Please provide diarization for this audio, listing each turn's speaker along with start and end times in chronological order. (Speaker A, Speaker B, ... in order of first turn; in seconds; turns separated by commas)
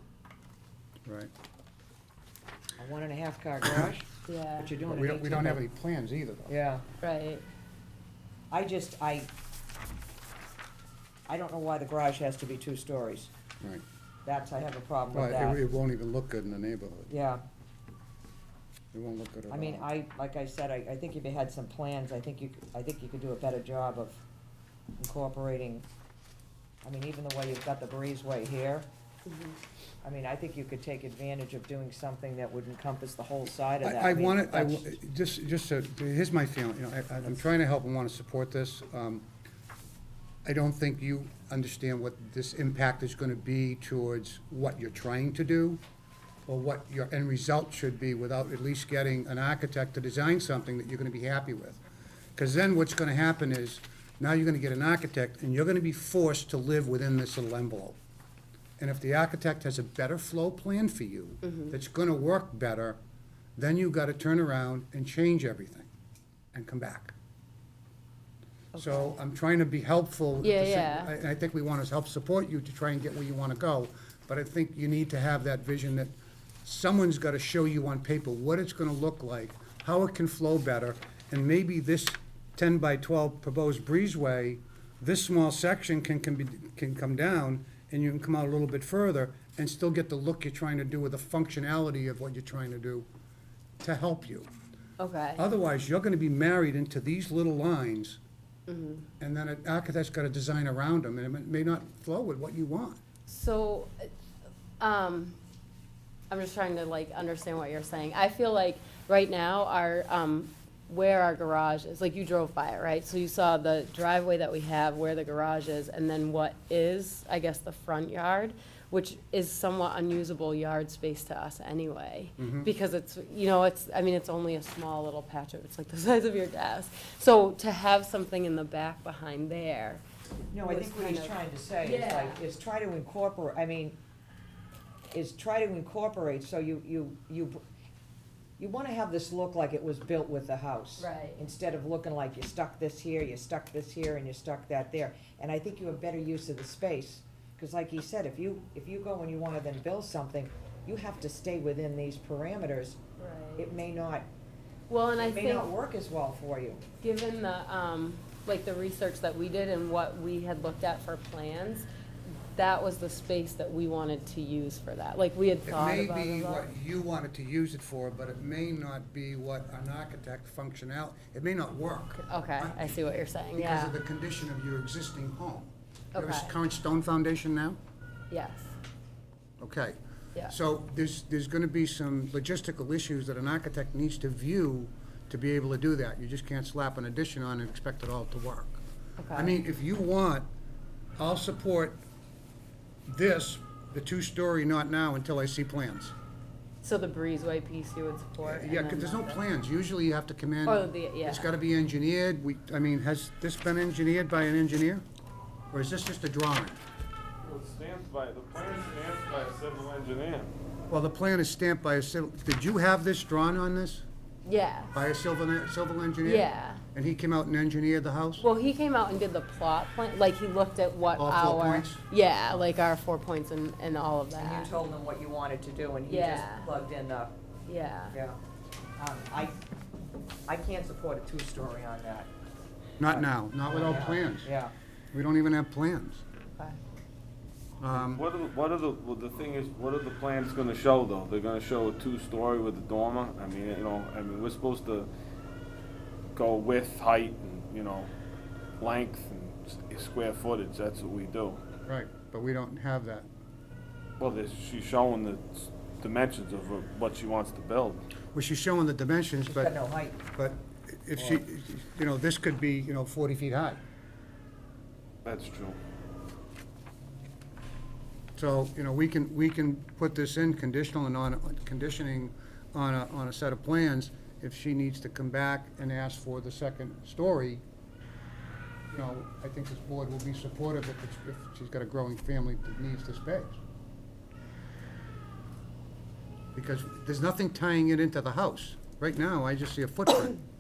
Speaker A: 1.1-1.3, Speaker B: 2.8-5.6, Speaker C: 4.3-4.7, Speaker A: 4.9-6.5, Speaker B: 6.5-6.8, Speaker C: 7.0-7.5, Speaker B: 8.5-9.3, Speaker B: 11.3-13.3, Speaker B: 14.2-15.6, Speaker A: 15.1-17.1, Speaker B: 17.1-17.4, Speaker A: 18.9-19.9, Speaker B: 19.5-24.2, Speaker B: 25.0-25.9, Speaker B: 26.8-28.9, Speaker C: 29.3-29.6, Speaker B: 30.0-34.9, Speaker A: 33.8-39.3, Speaker A: 40.5-45.8, Speaker A: 46.5-51.8, Speaker A: 52.4-58.0, Speaker A: 58.8-63.0, Speaker C: 61.4-61.8, Speaker A: 63.6-65.9, Speaker A: 66.5-67.2, Speaker C: 68.7-69.2, Speaker A: 68.8-76.1, Speaker C: 70.4-71.1, Speaker A: 76.7-93.1, Speaker A: 93.8-94.5, Speaker C: 95.0-95.5, Speaker A: 95.4-98.2, Speaker C: 98.7-99.1, Speaker A: 99.2-103.0, Speaker C: 103.3-104.1, Speaker C: 104.8-105.4, Speaker C: 106.3-130.0, Speaker A: 122.4-122.7, Speaker B: 130.5-134.0, Speaker C: 130.6-132.4, Speaker B: 135.1-137.6, Speaker B: 138.6-153.0, Speaker C: 141.0-141.4, Speaker C: 153.2-153.7, Speaker B: 153.6-154.3, Speaker C: 154.9-155.7, Speaker B: 155.2-156.8, Speaker C: 157.0-161.9, Speaker C: 162.5-166.7, Speaker A: 165.7-177.8, Speaker C: 172.2-174.0, Speaker C: 176.2-176.6, Speaker C: 178.3-178.8, Speaker A: 179.6-188.8, Speaker C: 189.2-189.6, Speaker A: 189.3-190.5, Speaker A: 191.2-192.0, Speaker A: 193.1-196.1, Speaker C: 196.8-199.4, Speaker A: 198.4-205.0, Speaker C: 200.7-201.5, Speaker A: 205.7-206.8, Speaker D: 207.4-210.5, Speaker A: 210.9-214.1, Speaker C: 214.4-215.1, Speaker A: 214.9-218.5, Speaker C: 216.2-216.8, Speaker C: 218.4-224.7, Speaker A: 221.2-222.6, Speaker B: 224.4-227.3, Speaker C: 226.1-226.7, Speaker C: 227.7-228.2, Speaker B: 228.1-228.4, Speaker B: 229.0-229.6, Speaker B: 230.5-232.3, Speaker A: 233.0-234.5, Speaker B: 233.1-234.7, Speaker A: 235.1-236.2, Speaker A: 237.8-238.2, Speaker D: 237.9-245.1, Speaker D: 246.3-248.1, Speaker D: 248.8-251.6, Speaker A: 251.9-253.3, Speaker D: 254.2-258.0, Speaker A: 258.3-259.8, Speaker B: 259.4-260.2, Speaker A: 260.3-263.8, Speaker D: 265.2-265.8, Speaker A: 268.4-277.6, Speaker A: 278.9-283.6, Speaker A: 286.6-290.4